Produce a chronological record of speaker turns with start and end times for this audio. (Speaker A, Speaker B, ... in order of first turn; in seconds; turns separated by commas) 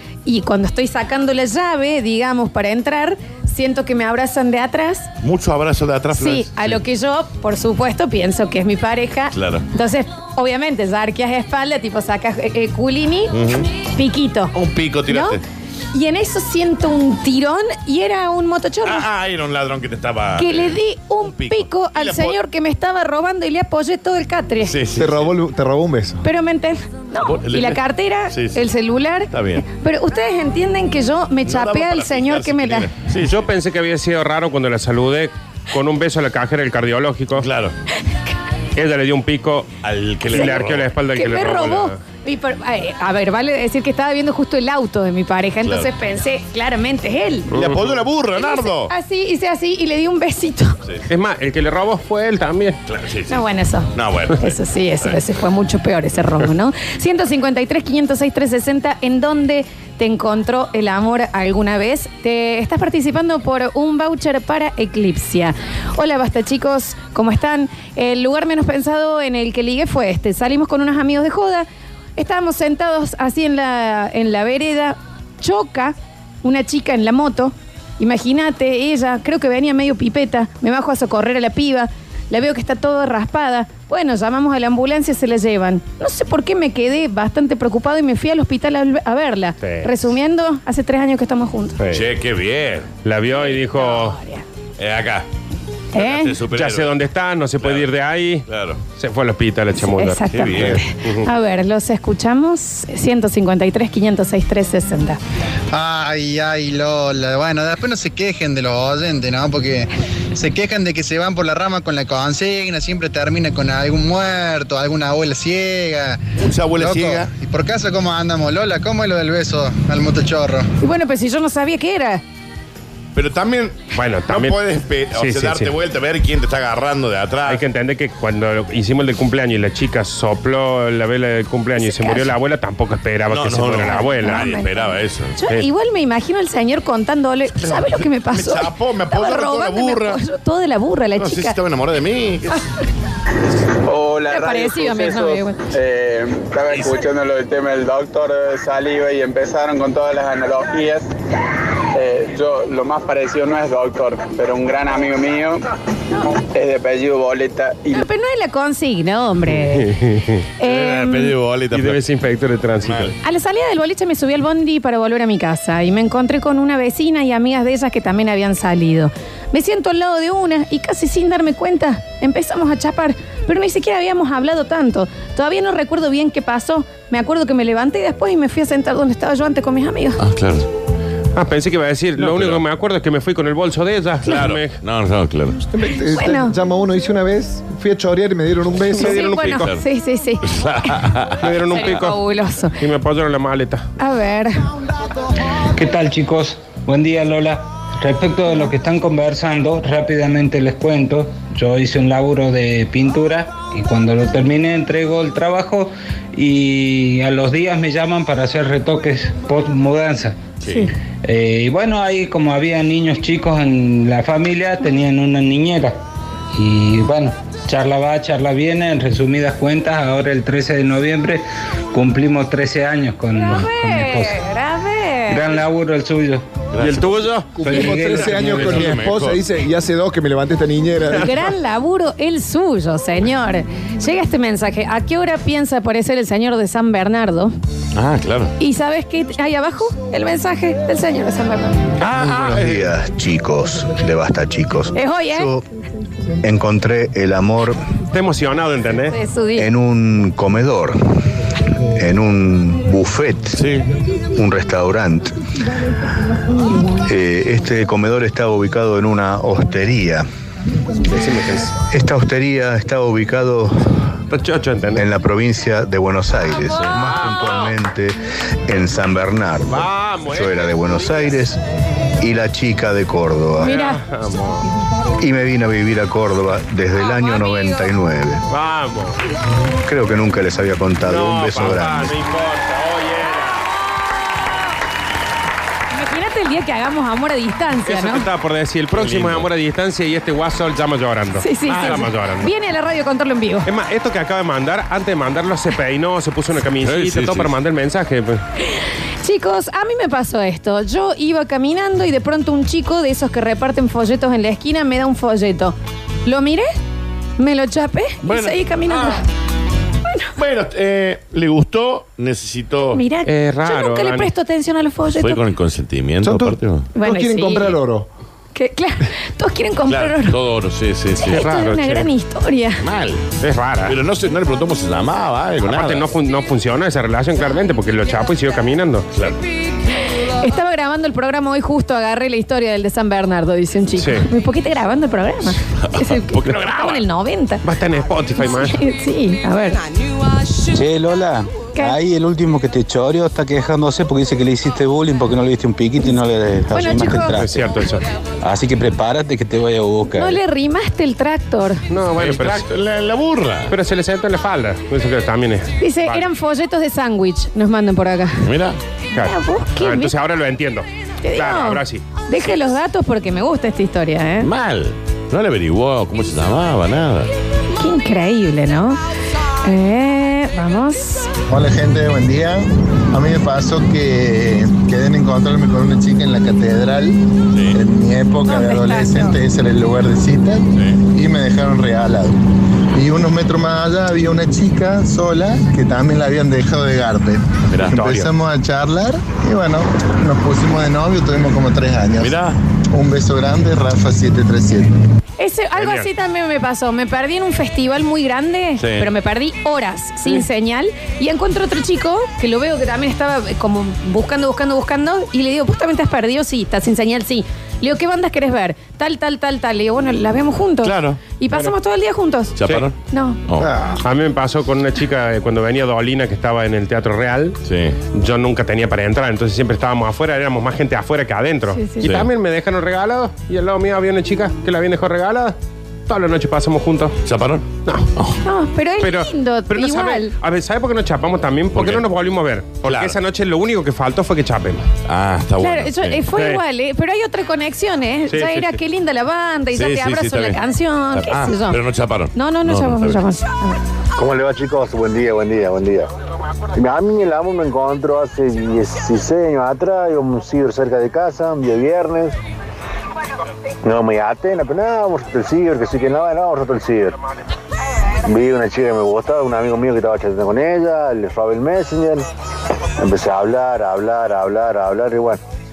Speaker A: 0.2-5.1, Speaker B: 5.2-6.8, Speaker A: 6.1-13.3, Speaker B: 9.3-9.7, Speaker B: 13.3-13.7, Speaker A: 13.9-14.5, Speaker B: 14.5-15.4, Speaker A: 15.1-15.4, Speaker A: 15.9-19.1, Speaker B: 18.8-22.4, Speaker A: 20.4-24.8, Speaker B: 24.6-25.3, Speaker C: 24.9-26.2, Speaker A: 26.2-32.9, Speaker B: 27.2-28.6, Speaker B: 29.3-29.6, Speaker B: 31.4-33.4, Speaker D: 33.2-37.5, Speaker B: 37.4-37.7, Speaker D: 38.8-39.7, Speaker B: 39.8-40.9, Speaker D: 40.2-42.0, Speaker A: 40.3-47.5, Speaker B: 45.6-45.9, Speaker D: 47.5-47.9, Speaker B: 47.5-48.9, Speaker A: 48.3-50.8, Speaker D: 51.1-52.8, Speaker B: 52.9-55.1, Speaker A: 53.3-91.8, Speaker D: 89.6-89.9, Speaker D: 91.8-92.0, Speaker B: 91.9-92.9, Speaker D: 93.0-94.2, Speaker A: 93.4-94.4, Speaker B: 94.8-95.2, Speaker A: 95.9-96.3, Speaker B: 95.9-96.9, Speaker D: 96.5-98.5, Speaker B: 97.6-97.9, Speaker B: 98.5-98.8, Speaker D: 99.0-101.3, Speaker A: 99.8-105.2, Speaker B: 100.3-100.8, Speaker E: 105.7-116.2, Speaker B: 116.4-117.3, Speaker E: 116.8-120.7, Speaker A: 120.8-122.2, Speaker B: 123.1-127.6, Speaker D: 123.9-124.6, Speaker D: 125.1-125.7, Speaker D: 127.5-134.5, Speaker A: 131.8-132.3, Speaker B: 133.3-135.3, Speaker A: 133.8-141.6, Speaker B: 137.6-140.2, Speaker B: 141.2-142.6, Speaker F: 143.8-151.1, Speaker A: 144.3-145.6, Speaker B: 146.7-147.0, Speaker F: 151.9-155.6, Speaker F: 156.4-158.0, Speaker A: 157.9-159.9, Speaker D: 159.7-160.4, Speaker A: 160.6-161.3, Speaker B: 160.6-162.0, Speaker D: 161.7-163.1, Speaker B: 162.8-163.1, Speaker A: 163.2-180.2, Speaker B: 180.2-180.7, Speaker D: 181.3-184.8, Speaker B: 182.2-182.6, Speaker B: 184.2-185.6, Speaker C: 185.7-189.4, Speaker A: 186.1-186.6, Speaker A: 188.9-190.9, Speaker D: 189.1-189.7, Speaker B: 189.1-189.8, Speaker B: 190.4-191.9, Speaker D: 191.4-192.2, Speaker A: 191.7-192.8, Speaker D: 192.8-193.9, Speaker A: 194.0-194.7, Speaker G: 195.8-210.4, Speaker B: 210.6-210.9, Speaker G: 211.2-216.0, Speaker G: 216.5-224.4, Speaker A: 223.3-225.4, Speaker G: 225.3-226.4, Speaker B: 226.7-227.2, Speaker D: 226.8-227.5, Speaker G: 227.6-228.9, Speaker C: 227.6-231.3, Speaker B: 228.1-229.4, Speaker A: 231.1-237.5, Speaker B: 237.9-238.5, Speaker A: 238.6-241.8, Speaker B: 242.0-242.9, Speaker H: 242.2-245.6, Speaker A: 244.9-245.5, Speaker H: 246.4-247.8, Speaker D: 248.1-249.2, Speaker A: 249.1-249.7, Speaker H: 249.6-251.0, Speaker H: 251.9-253.6, Speaker B: 253.6-253.8, Speaker H: 254.3-255.3, Speaker H: 256.8-260.2, Speaker D: 261.0-261.8, Speaker H: 261.9-264.0, Speaker D: 264.3-265.1, Speaker H: 264.9-271.6, Speaker D: 266.9-267.7, Speaker D: 269.7-271.0, Speaker H: 272.2-273.8, Speaker A: 273.6-274.0, Speaker D: 273.6-274.6, Speaker H: 275.2-278.4, Speaker A: 277.1-277.8, Speaker D: 278.5-279.1, Speaker H: 279.8-282.2, Speaker D: 281.0-283.6, Speaker A: 285.9-288.2, Speaker D: 287.9-292.5, Speaker B: 288.9-289.5, Speaker A: 291.4-293.7, Speaker D: 293.6-298.4, Speaker B: 296.8-297.5, Speaker A: 298.6-306.7, Speaker A: 307.4-309.2, Speaker B: 308.2-309.2, Speaker B: 310.4-313.0, Speaker A: 312.9-315.4, Speaker D: 313.2-314.3, Speaker B: 315.1-316.9, Speaker C: 316.2-318.1, Speaker A: 316.9-317.8, Speaker A: 318.5-320.4, Speaker B: 319.9-321.4, Speaker A: 321.2-322.8, Speaker D: 321.3-322.1, Speaker B: 322.8-323.3, Speaker D: 323.4-324.0, Speaker B: 323.8-326.1, Speaker D: 325.6-329.1, Speaker B: 329.1-329.4, Speaker A: 330.2-337.6, Speaker D: 334.0-334.2, Speaker B: 335.8-337.0, Speaker D: 337.6-338.8, Speaker A: 338.4-339.8, Speaker I: 340.7-347.6, Speaker A: 346.7-347.4, Speaker D: 347.4-348.1, Speaker I: 348.4-350.4, Speaker A: 350.1-351.8, Speaker D: 351.9-352.7, Speaker B: 352.2-353.7, Speaker D: 353.7-356.3, Speaker A: 355.8-358.5, Speaker B: 358.4-358.8, Speaker A: 359.1-360.1, Speaker D: 359.1-362.0, Speaker A: 361.2-364.5, Speaker B: 364.4-367.3, Speaker A: 367.8-369.0, Speaker A: 369.6-371.3, Speaker J: 371.5-377.2, Speaker B: 377.5-377.8, Speaker J: 377.7-382.3, Speaker A: 378.4-379.4, Speaker B: 380.8-381.0, Speaker J: 382.9-392.4, Speaker B: 387.7-388.0, Speaker D: 387.9-388.3, Speaker B: 392.2-392.6, Speaker J: 392.9-394.9, Speaker A: 395.4-412.6, Speaker D: 395.8-396.1, Speaker B: 398.8-399.1, Speaker B: 410.8-411.2, Speaker B: 412.6-412.9, Speaker A: 413.1-413.4, Speaker B: 413.5-413.7, Speaker C: 413.6-414.0, Speaker D: 414.0-417.6, Speaker B: 417.6-417.9, Speaker D: 418.1-425.5, Speaker A: 421.7-422.1, Speaker B: 422.0-422.3, Speaker D: 426.1-427.2, Speaker B: 427.2-428.4, Speaker A: 428.4-430.3, Speaker D: 429.0-434.9, Speaker B: 431.7-432.0, Speaker B: 432.8-433.1, Speaker B: 435.1-436.2, Speaker A: 435.6-441.8, Speaker D: 436.3-436.6, Speaker D: 438.3-438.8, Speaker B: 439.7-440.6, Speaker B: 441.1-443.2, Speaker A: 442.3-443.8, Speaker K: 444.1-446.1, Speaker K: 446.7-452.3, Speaker K: 453.8-457.2, Speaker K: 458.2-462.2, Speaker K: 463.0-465.4